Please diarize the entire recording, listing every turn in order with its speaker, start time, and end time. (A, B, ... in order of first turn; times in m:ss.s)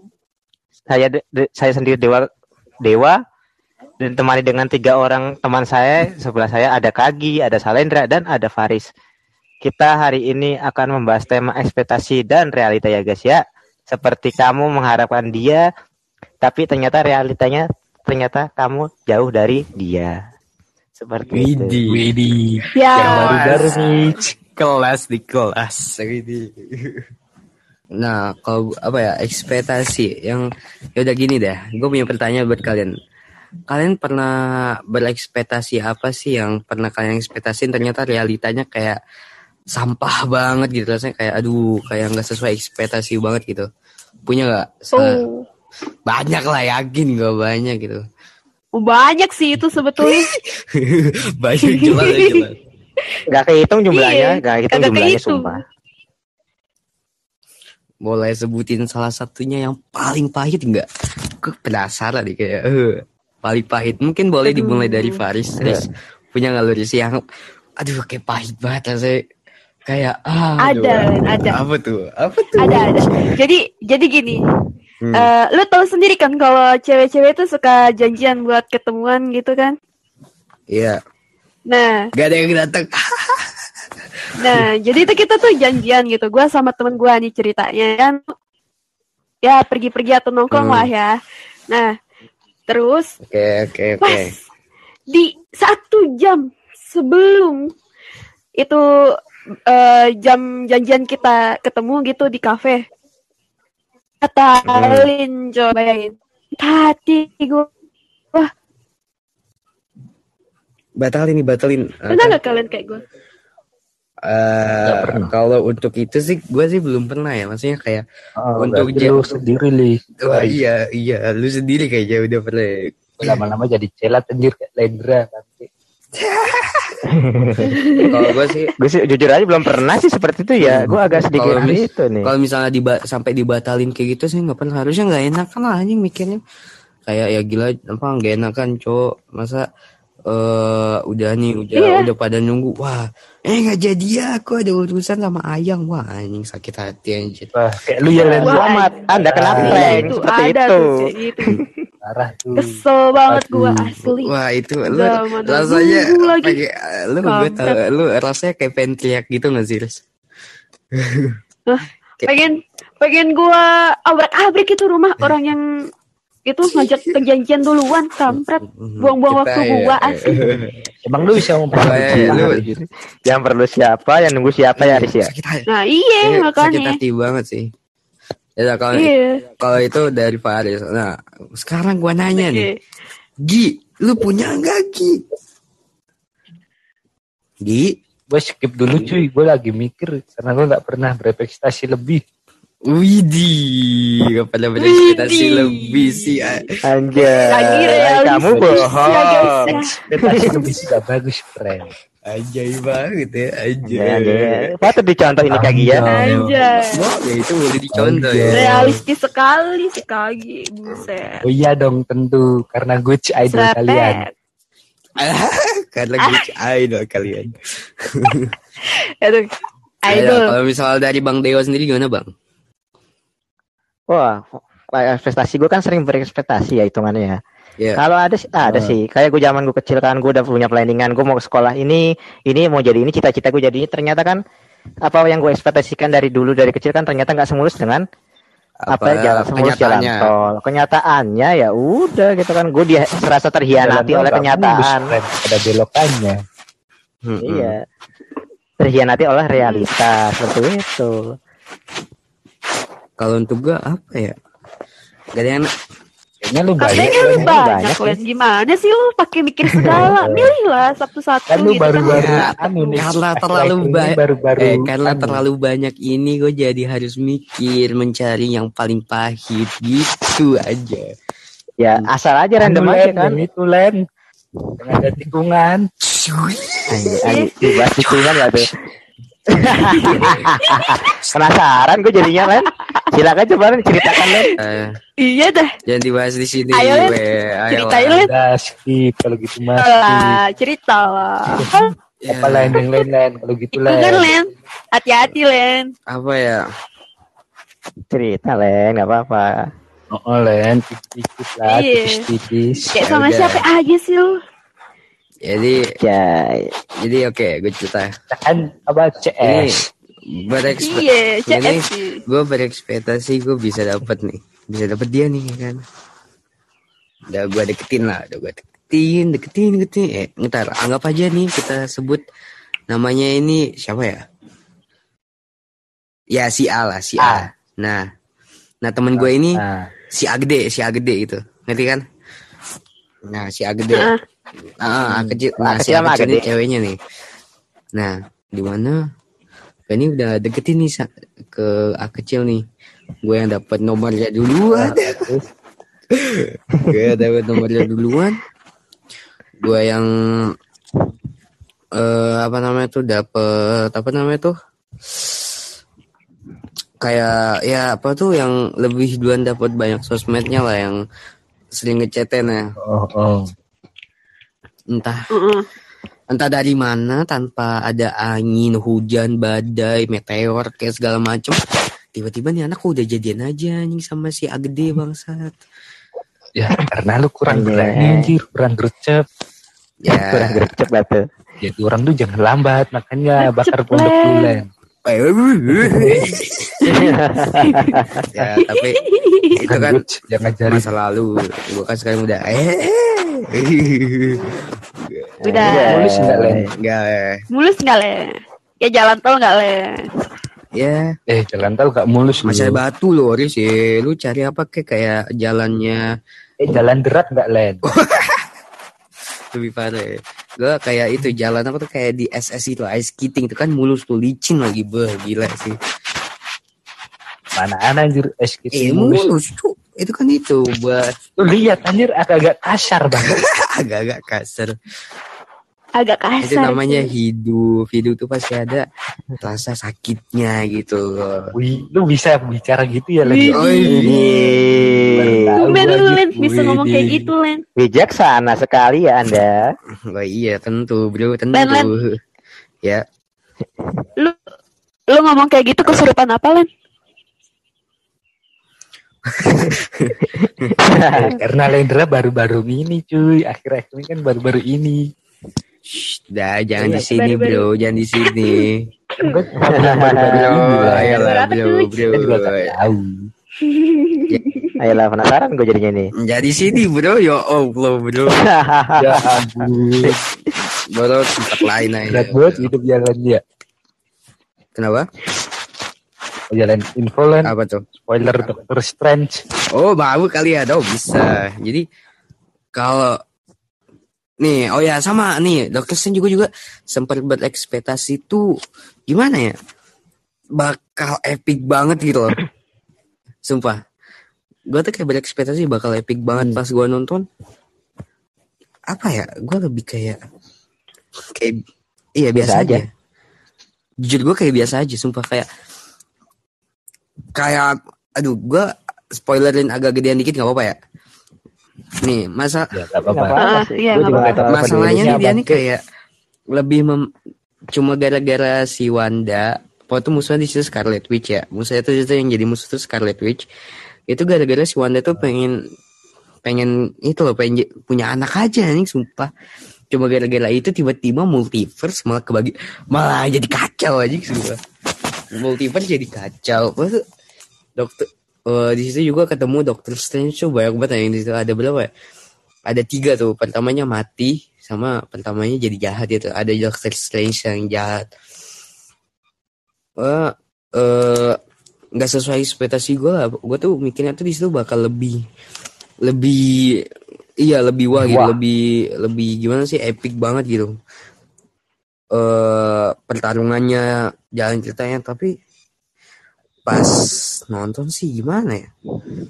0:00.9-0:02.3 A
0:02.8-0:03.2 A
0:04.0-0:08.9 A
0:09.6-0:15.7 A
0:16.4-0:20.2 A
0:21.0-0:21.8 A
0:21.3-0:22.1 B
0:21.9-0:24.2 C
0:22.8-0:23.6 D
0:23.0-0:27.0 B
0:28.0-0:32.9 B
0:33.7-0:34.3 B
0:34.9-0:39.0 B
0:39.8-0:43.7 B
0:44.3-0:45.2 B
0:44.9-0:45.4 D
0:46.1-0:48.0 B
0:48.8-0:50.3 D
0:50.1-0:52.6 B
0:51.7-0:52.4 D
0:53.3-0:55.6 A
0:53.9-0:55.6 D
0:58.0-1:00.9 B
1:01.4-1:07.2 B
1:04.5-1:05.2 D
1:07.8-1:09.2 B
1:09.9-1:13.4 B
1:10.6-1:11.6 D
1:12.6-1:14.4 D
1:15.0-1:15.3 B
1:15.1-1:19.8 D
1:20.7-1:21.0 B
1:21.7-1:22.0 D
1:22.2-1:23.4 B
1:24.4-1:28.2 D
1:29.4-1:31.2 D
1:30.5-1:30.9 B
1:32.7-1:33.1 D
1:33.2-1:34.3 B
1:34.0-1:34.3 D
1:35.1-1:37.6 D
1:39.7-1:42.8 D
1:44.2-1:47.7 D
1:44.7-1:45.1 B
1:51.0-1:52.4 B
1:52.1-1:53.0 D
1:54.3-1:58.0 B
1:54.8-1:55.3 C
1:58.4-2:00.6 C
1:58.6-1:59.6 B
2:00.2-2:03.4 B
2:03.2-2:05.7 C
2:06.2-2:07.1 B
2:07.2-2:07.6 A
2:07.7-2:08.2 D
2:08.1-2:08.7 B
2:08.8-2:12.3 A
2:10.6-2:16.4 B
2:17.1-2:19.6 B
2:20.3-2:27.5 B
2:21.8-2:22.1 D
2:27.5-2:28.6 C
2:28.2-2:30.8 A
2:28.4-2:31.6 D
2:29.2-2:30.2 C
2:32.0-2:32.7 C
2:32.6-2:34.3 D
2:33.3-2:33.8 C
2:34.0-2:40.0 B
2:34.8-2:36.6 D
2:37.2-2:37.8 D
2:41.0-2:41.4 B
2:41.7-2:45.6 D
2:46.5-2:50.4 D
2:46.8-2:47.1 B
2:48.3-2:50.7 B
2:51.0-2:52.8 C
2:51.4-2:52.6 B
2:51.8-2:55.3 A
2:54.8-2:55.6 B
2:55.7-2:57.0 D
2:56.2-2:57.7 B
2:58.6-3:02.7 B
2:58.9-2:59.4 D
3:02.4-3:02.8 D
3:03.4-3:05.2 B
3:07.6-3:08.0 B
3:08.3-3:12.2 C
3:08.9-3:09.2 B
3:12.9-3:16.6 B
3:14.8-3:16.6 D
3:16.8-3:20.7 A
3:17.2-3:17.9 B
3:17.4-3:20.0 D
3:18.6-3:20.0 B
3:20.2-3:21.9 C
3:20.5-3:20.8 B
3:22.3-3:24.7 B
3:23.9-3:26.1 A
3:25.5-3:26.5 C
3:26.0-3:27.0 D
3:26.4-3:28.8 B
3:27.9-3:29.0 C
3:28.5-3:31.4 D
3:31.4-3:34.2 C
3:33.5-3:34.3 D
3:35.2-3:37.5 B
3:38.1-3:38.5 B
3:39.2-3:39.5 D
3:40.1-3:40.6 D
3:40.1-3:42.3 B
3:44.1-3:47.4 A
3:48.0-3:54.4 A
3:55.1-3:58.0 A
3:58.9-4:00.3 B
3:58.9-4:05.0 A
4:03.8-4:06.4 C
4:07.2-4:07.7 B
4:07.4-4:07.8 A
4:08.8-4:11.3 A
4:09.6-4:09.8 D
4:13.2-4:14.4 B
4:15.4-4:15.7 B
4:16.4-4:17.5 C
4:16.8-4:23.0 D
4:17.0-4:18.2 A
4:20.2-4:20.5 C
4:21.5-4:25.4 C
4:22.0-4:31.1 B
4:31.8-4:33.4 A
4:32.6-4:34.0 C
4:34.8-4:35.8 C
4:36.1-4:37.3 B
4:36.9-4:38.7 A
4:37.2-4:37.8 D
4:38.1-4:38.4 B
4:39.6-4:44.5 A
4:40.0-4:40.9 D
4:40.0-4:40.5 B
4:42.4-4:42.7 D
4:44.1-4:44.5 D
4:44.6-4:44.9 B
4:45.2-4:45.7 D
4:45.9-4:48.2 B
4:46.7-4:47.2 D
4:47.7-4:48.3 D
4:48.2-4:50.4 C
4:49.8-4:51.9 D
4:52.3-4:52.8 B
4:52.3-4:54.4 C
4:53.7-4:55.9 D
4:56.1-4:56.6 B
4:58.1-4:59.7 A
5:00.1-5:02.9 C
5:01.7-5:02.2 D
5:02.9-5:04.3 D
5:03.0-5:03.6 B
5:05.4-5:06.0 B
5:06.0-5:06.7 A
5:07.0-5:08.1 B
5:08.3-5:09.8 C
5:09.4-5:15.8 B
5:10.7-5:12.2 D
5:17.3-5:22.2 B
5:22.9-5:24.2 B
5:26.3-5:28.0 B
5:27.2-5:27.5 C
5:28.8-5:29.6 B
5:29.2-5:29.9 C
5:30.1-5:32.0 B
5:33.3-5:34.1 B
5:34.0-5:34.2 D
5:34.8-5:37.0 B
5:35.1-5:35.4 C
5:35.6-5:36.5 A
5:37.9-5:39.0 B
5:39.9-5:42.6 B
5:43.2-5:45.2 B
5:44.7-5:45.5 C
5:46.1-5:48.4 B
5:49.6-5:50.5 B
5:52.0-5:54.5 B
5:57.0-6:01.0 B
6:01.7-6:02.7 B
6:02.8-6:03.5 C
6:04.9-6:05.3 B
6:05.3-6:05.6 D
6:06.3-6:11.6 B
6:12.2-6:15.6 B
6:16.6-6:19.2 C
6:17.5-6:18.3 A
6:20.0-6:20.8 B
6:20.2-6:21.2 A
6:21.6-6:24.7 C
6:23.4-6:24.6 D
6:25.0-6:27.0 B
6:25.8-6:26.3 C
6:26.9-6:28.2 A
6:27.6-6:28.0 D
6:28.3-6:29.0 B
6:29.0-6:29.6 D
6:29.6-6:30.0 B
6:29.7-6:30.9 C
6:30.6-6:34.5 B
6:35.0-6:35.3 B
6:35.4-6:36.0 D
6:35.5-6:36.7 A
6:35.8-6:36.7 C
6:36.8-6:37.4 B
6:37.5-6:40.0 D
6:40.7-6:41.1 B
6:41.3-6:42.8 C
6:42.4-6:46.0 B
6:46.6-6:47.8 C
6:47.9-6:48.4 B
6:49.5-6:55.8 B
6:57.6-6:59.3 C
6:58.7-7:01.0 B
7:01.4-7:03.4 C
7:03.2-7:04.7 B
7:06.0-7:07.1 D
7:06.4-7:08.8 B
7:09.4-7:11.4 B
7:11.6-7:13.6 C
7:13.2-7:14.5 D
7:13.5-7:14.3 B
7:13.9-7:15.6 A
7:14.8-7:17.3 C
7:15.6-7:17.6 D
7:17.8-7:19.6 A
7:20.0-7:22.0 B
7:21.5-7:21.9 D
7:25.1-7:26.7 D
7:29.3-7:30.7 B
7:30.4-7:31.3 A
7:31.2-7:35.0 C
7:35.9-7:38.9 B
7:36.8-7:37.1 A
7:36.9-7:37.7 D
7:39.2-7:41.2 C
7:39.6-7:40.5 A
7:40.3-7:42.8 B
7:41.1-7:42.0 D
7:42.0-7:43.3 C
7:43.6-7:44.8 D
7:44.8-7:46.1 A
7:46.2-7:48.4 B
7:48.4-7:49.4 A
7:49.0-7:50.2 C
7:50.9-7:52.7 B
7:52.1-7:53.4 C
7:54.8-7:55.1 B
7:56.5-7:57.5 C
7:57.4-7:58.6 B
7:58.0-7:59.4 C
7:59.7-8:01.8 B
8:02.8-8:03.2 B
8:04.4-8:08.4 B
8:09.1-8:09.5 B
8:10.6-8:12.4 B
8:13.4-8:13.8 B
8:14.7-8:17.2 B
8:18.9-8:20.2 B
8:22.2-8:22.9 B
8:22.3-8:22.8 A
8:24.0-8:25.5 B
8:27.4-8:30.8 B
8:32.0-8:32.7 B
8:32.7-8:35.6 C
8:33.1-8:35.2 A
8:33.4-8:34.4 D
8:34.4-8:35.8 B
8:36.5-8:37.0 B
8:37.7-8:43.4 B
8:44.1-8:45.6 B
8:46.4-8:49.3 B
8:49.9-8:54.6 B
8:55.3-8:57.0 B
8:57.8-9:01.9 B
9:02.7-9:08.0 B
9:10.0-9:11.4 B
9:12.0-9:15.2 B
9:16.0-9:16.8 B
9:17.4-9:20.7 B
9:18.0-9:18.4 C
9:22.1-9:23.9 B
9:24.4-9:25.3 B
9:26.7-9:28.7 B